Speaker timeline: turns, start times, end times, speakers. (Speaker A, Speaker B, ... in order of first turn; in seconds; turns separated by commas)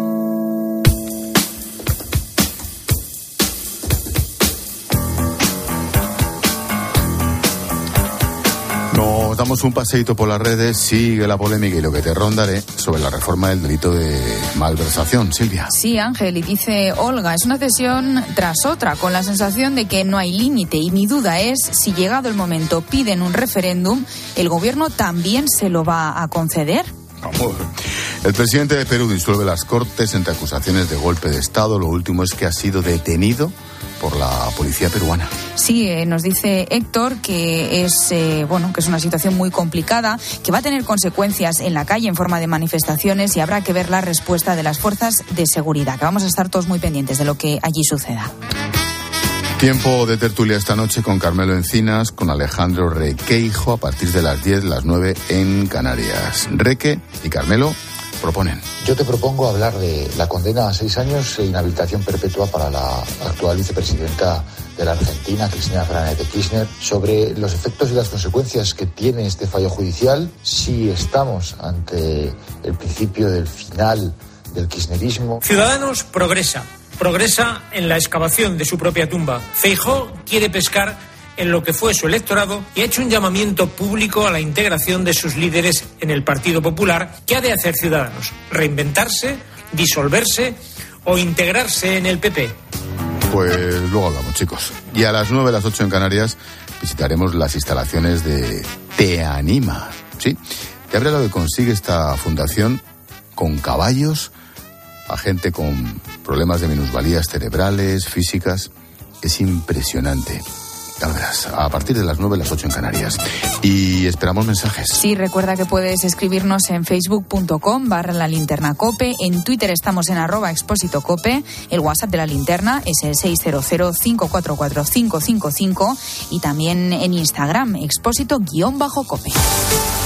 Speaker A: 8.9-15.7, Speaker B: 15.7-26.9, Speaker A: 27.2-27.7, Speaker A: 28.2-35.3, Speaker B: 35.6-48.3, Speaker A: 49.6-58.7, Speaker C: 58.8-75.4, Speaker D: 75.4-92.6, Speaker A: 93.3-100.4, Speaker A: 100.9-102.8, Speaker A: 103.3-104.3, Speaker A: 105.1-108.7, Speaker A: 109.2-110.5, Speaker A: 111.0-115.0, Speaker B: 115.0-129.4